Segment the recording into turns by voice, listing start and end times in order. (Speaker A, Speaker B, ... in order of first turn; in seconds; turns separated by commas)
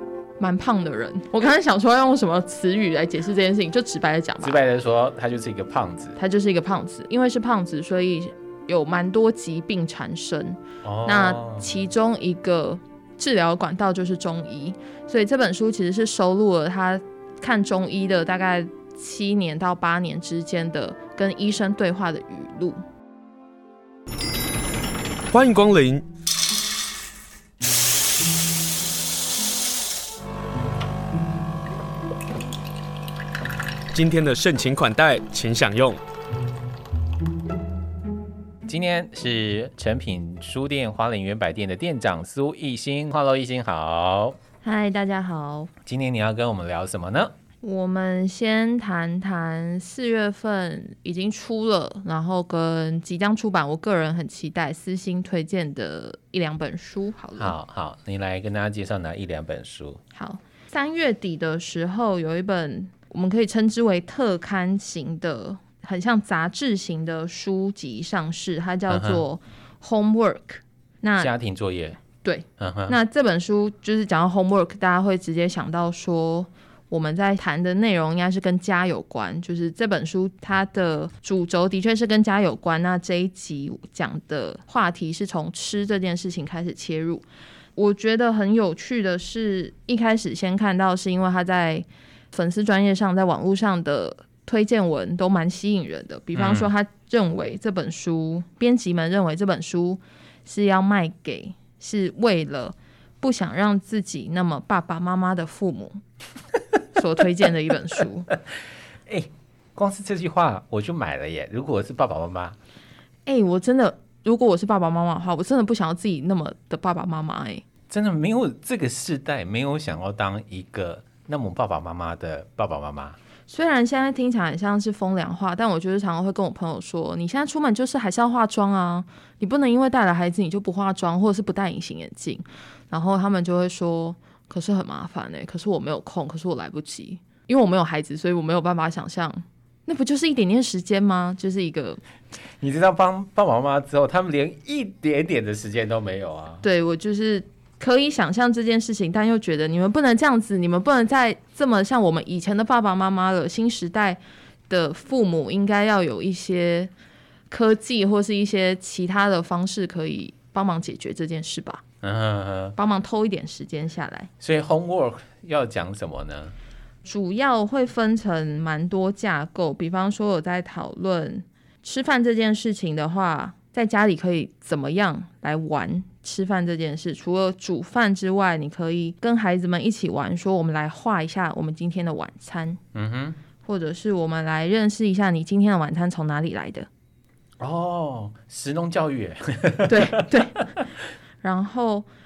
Speaker A: 0.4-4.6, Speaker B: 4.4-6.2, Speaker A: 6.2-22.8, Speaker B: 10.8-11.8, Speaker C: 25.3-26.1, Speaker C: 33.9-36.0, Speaker B: 38.7-44.4, Speaker A: 44.6-45.7, Speaker B: 45.9-47.3, Speaker A: 47.6-57.5, Speaker B: 57.4-60.0, Speaker A: 60.1-71.3, Speaker B: 68.9-69.2, Speaker B: 71.2-72.0, Speaker A: 72.2-87.2, Speaker B: 72.6-73.0, Speaker A: 87.8-106.0, Speaker B: 96.3-96.7, Speaker A: 107.0-108.3, Speaker B: 108.3-112.6, Speaker A: 113.3-117.6, Speaker B: 117.9-123.2, Speaker A: 123.5-142.0, Speaker B: 142.6-146.6, Speaker A: 146.6-156.9, Speaker A: 157.5-161.8, Speaker B: 162.0-162.8, Speaker A: 162.8-164.3, Speaker B: 164.4-166.6, Speaker A: 167.1-182.8, Speaker B: 182.9-183.4, Speaker A: 183.6-186.9, Speaker B: 187.6-190.1, Speaker A: 189.9-190.7, Speaker A: 191.4-192.1